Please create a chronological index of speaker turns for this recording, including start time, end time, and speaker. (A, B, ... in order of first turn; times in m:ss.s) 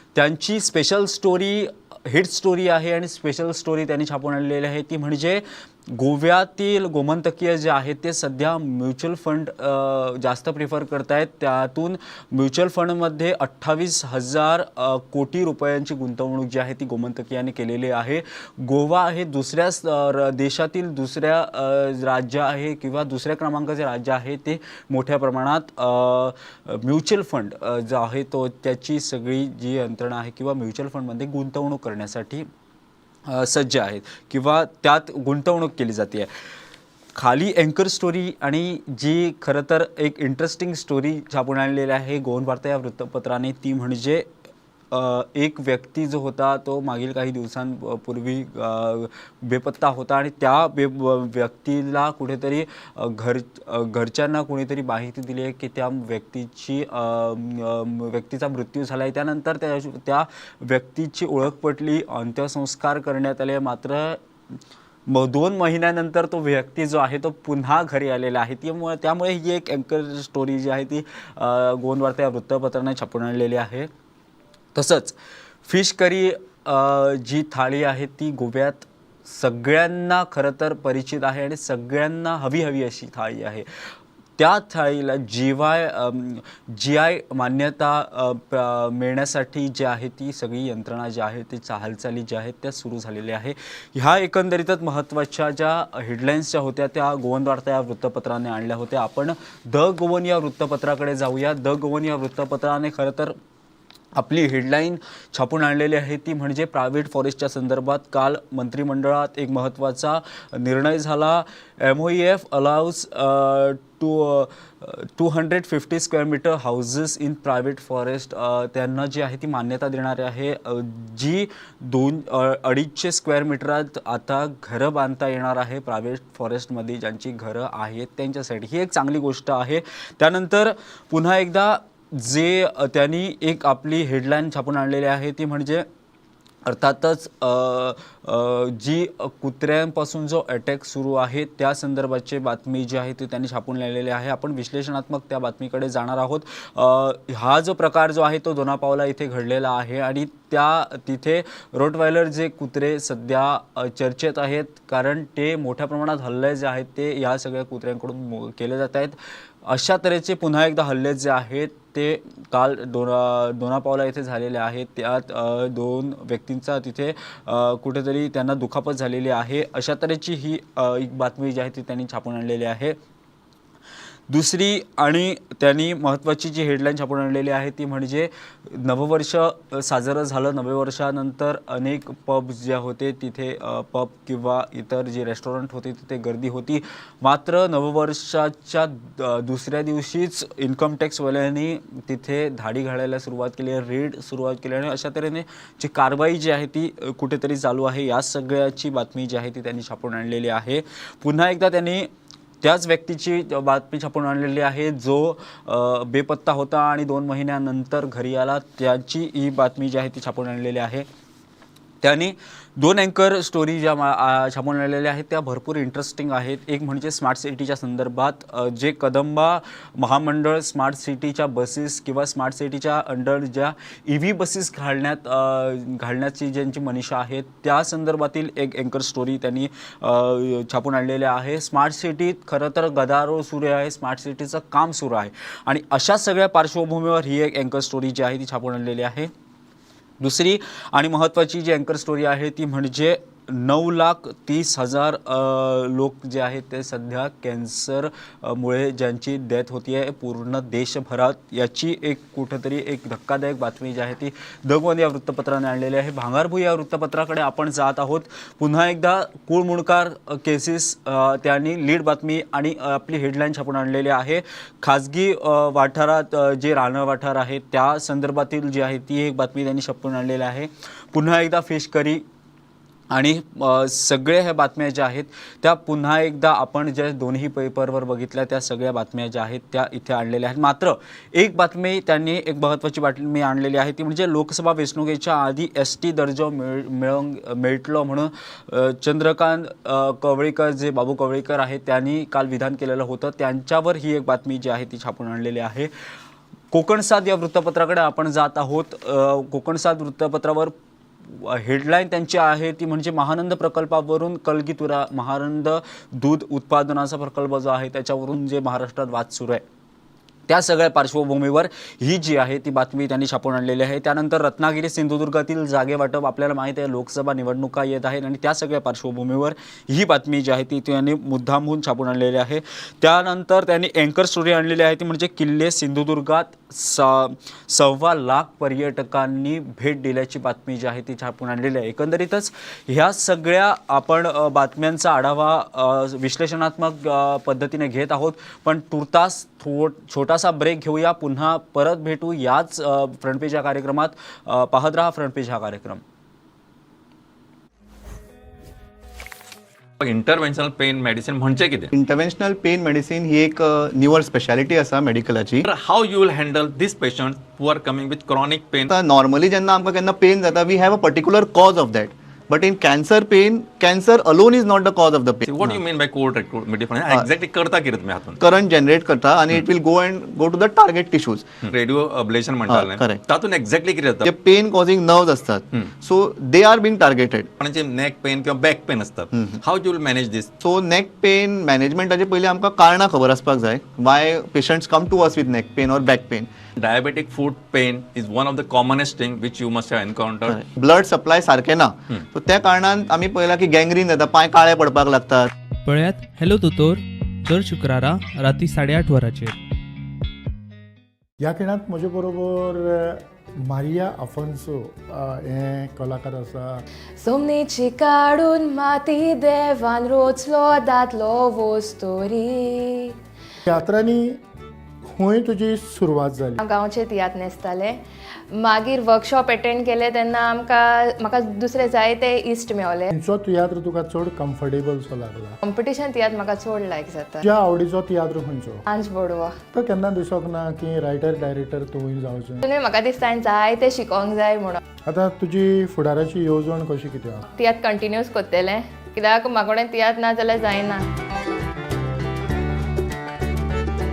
0:00.2-0:32.5 A
0:33.3-0:36.3 A
0:37.2-0:44.3 A
0:44.9-1:04.2 A
1:05.1-1:13.9 A
1:14.8-1:15.2 A
1:15.7-1:23.7 A
1:24.4-1:43.4 A
1:44.2-2:15.9 A
2:16.7-2:53.0 A
2:54.3-3:22.1 A
3:22.6-3:31.0 A
3:32.0-3:59.3 A
4:00.2-4:32.2 A
4:33.1-4:55.9 A
4:56.7-5:00.7 A
5:01.3-5:09.6 A
5:10.5-5:46.0 A
5:50.0-5:51.9 B
5:51.9-5:55.7 C
5:55.6-5:58.9 B
5:58.9-6:05.8 C
6:05.4-6:08.4 B
6:08.4-6:11.6 C
6:11.6-6:14.3 B
6:12.7-6:13.2 C
6:14.2-6:17.5 C
6:17.6-6:20.5 B
6:19.3-6:19.6 C
6:20.6-6:26.5 C
6:26.8-6:30.6 B
6:30.5-6:35.5 C
6:35.8-6:39.6 D
6:41.4-6:46.8 E
6:47.2-6:53.2 F
6:53.7-6:54.4 E
6:55.0-6:56.6 E
6:56.6-6:58.0 F
6:58.5-7:03.1 F
7:03.1-7:05.6 E
7:05.6-7:07.4 F
7:07.4-7:08.8 E
7:08.9-7:09.6 F
7:09.7-7:12.6 E
7:12.6-7:14.8 F
7:15.1-7:17.4 E
7:17.5-7:21.0 F